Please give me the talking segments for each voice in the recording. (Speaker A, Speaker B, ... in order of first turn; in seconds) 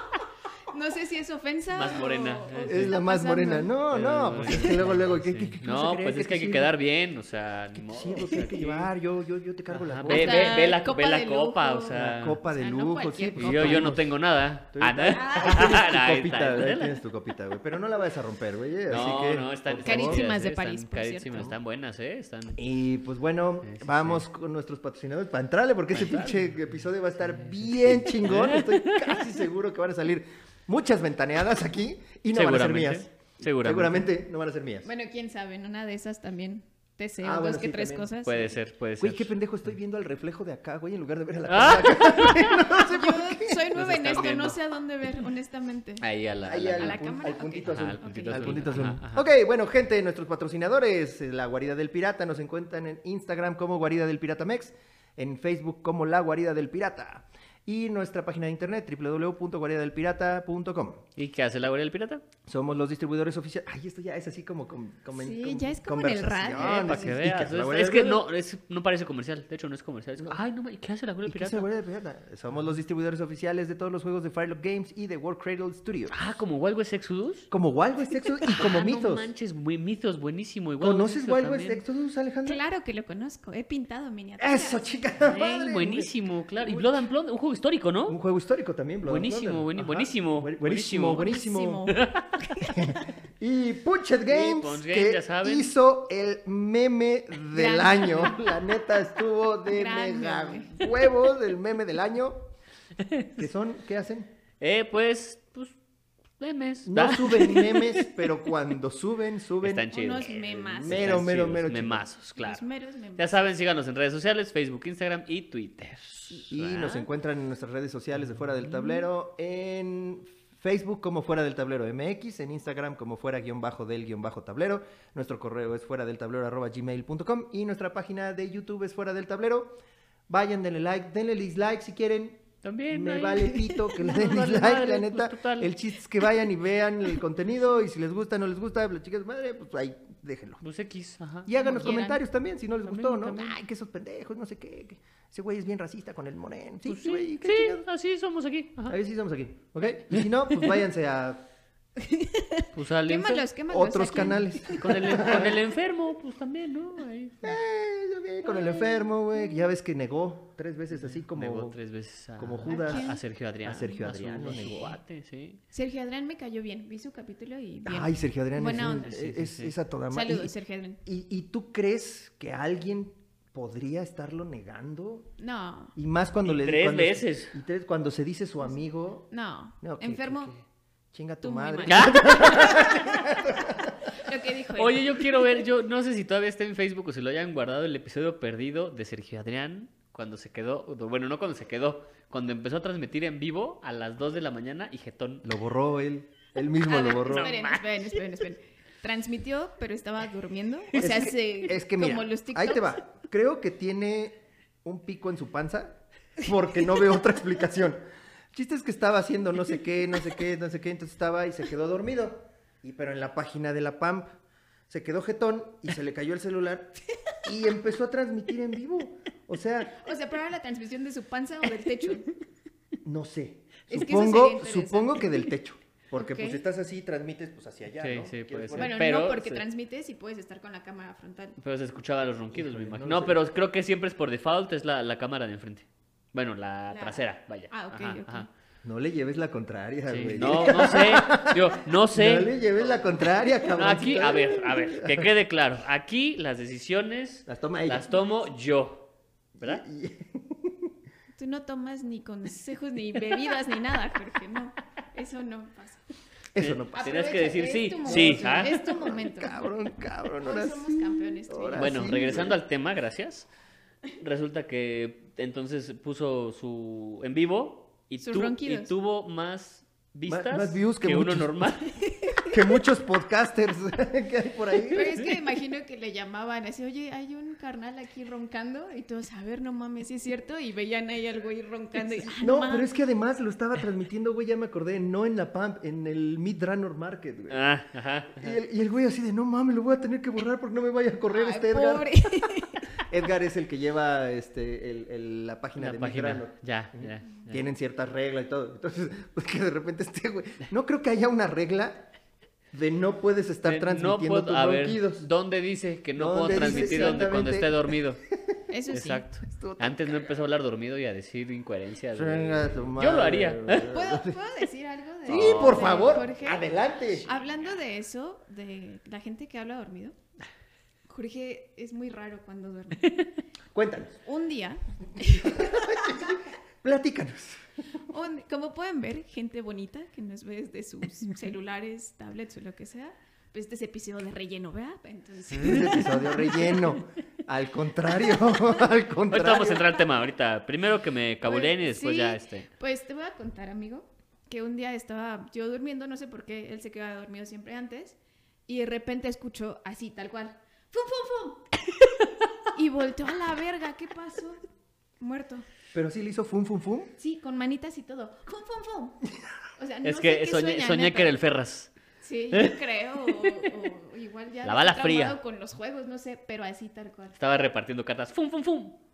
Speaker A: 0.7-3.7, 10.1-13.9, 15.1-15.7, 19.8-21.5, 34.8-38.5, 42.8-46.0, 46.7-48.8, 65.2-67.2, 82.4-85.4, 91.1-92.7, 97.5-98.5, 99.7-100.8, 109.9-111.2, 112.3-113.5, 133.6-133.9, 141.6-142.2, 152.0-155.2, 158.4-159.6, 162.7-163.2, 165.7-169.1, 170.1-171.0, 175.4-175.9, 179.3-180.5, 181.4-183.3, 184.1-185.4, 196.9-203.0, 219.9-222.3, 223.9-225.5, 226.1-226.6, 228.8-231.6, 236.9-238.5, 251.3-256.1, 256.9-259.7, 260.2-262.0, 268.2-268.9, 272.0-272.6, 274.9-282.9, 291.3-292.9, 308.7-309.2, 313.9-316.6, 317.2-320.2, 321.1-323.1, 324.2-326.2, 328.1-336.7, 341.4-351.7, 352.7-354.6, 355.2-355.6, 357.2-359.2, 359.8-361.4, 362.2-367.4
Speaker B: 1.7-3.0, 3.9-8.9, 9.7-12.4, 13.3-17.0, 18.9-22.6, 23.6-24.2, 25.9-26.3, 28.1-29.3, 32.3-34.1, 38.2-39.3, 41.5-42.6, 43.7-44.6, 46.0-49.3, 61.2-62.2, 66.6-71.7, 76.1-77.5, 78.4-81.8, 85.2-88.2, 89.0-91.3, 91.9-92.5, 94.3-95.7, 104.6-105.7, 106.4-108.2, 109.6-117.1, 132.6-135.8, 140.6-141.9, 142.8-143.6, 146.8-148.9, 150.1-150.7, 152.7-153.4, 154.8-157.6, 161.0-165.6, 168.7-169.7, 176.4-177.5, 181.9-183.0, 184.7-195.5, 197.2-198.2, 228.0-229.6, 231.6-238.5, 240.1-249.8, 256.6-258.9, 261.7-263.5, 264.1-272.0, 287.5-288.6, 295.8-297.6, 303.6-308.2, 308.9-314.0, 315.2-316.2, 339.3-342.7, 360.0-361.9, 362.5-363.7, 364.6-365.4, 367.4-369.0
Speaker C: 2.7-6.7, 7.7-10.6, 11.9-14.2, 14.7-20.3, 22.6-34.9, 37.2-38.1, 39.0-43.6, 46.4-61.0, 62.5-68.2, 71.2-76.1, 77.5-79.3, 80.8-82.6, 84.4-86.1, 86.6-87.0, 88.1-91.9, 92.6-102.5, 103.4-104.3, 106.8-112.1, 116.5-129.8, 130.3-140.6, 141.4-147.8, 148.9-151.4, 153.7-155.6, 157.4-161.8, 162.4-165.0, 167.8-170.5, 171.0-175.3, 175.9-179.3, 179.8-180.5, 181.1-183.9, 195.4-197.6, 200.9-208.0, 208.5-214.3, 214.9-220.0, 223.0-229.0, 232.5-233.4, 238.8-245.3, 247.5-248.1, 249.5-250.9, 256.5-257.4, 258.1-262.6, 270.3-271.8, 272.4-275.2, 282.3-287.6, 288.3-302.1, 302.7-305.2, 306.1-308.0, 309.4-310.3, 312.1-314.4, 315.2-317.2, 323.7-324.2, 325.2-327.6, 335.5-339.9, 355.9-357.1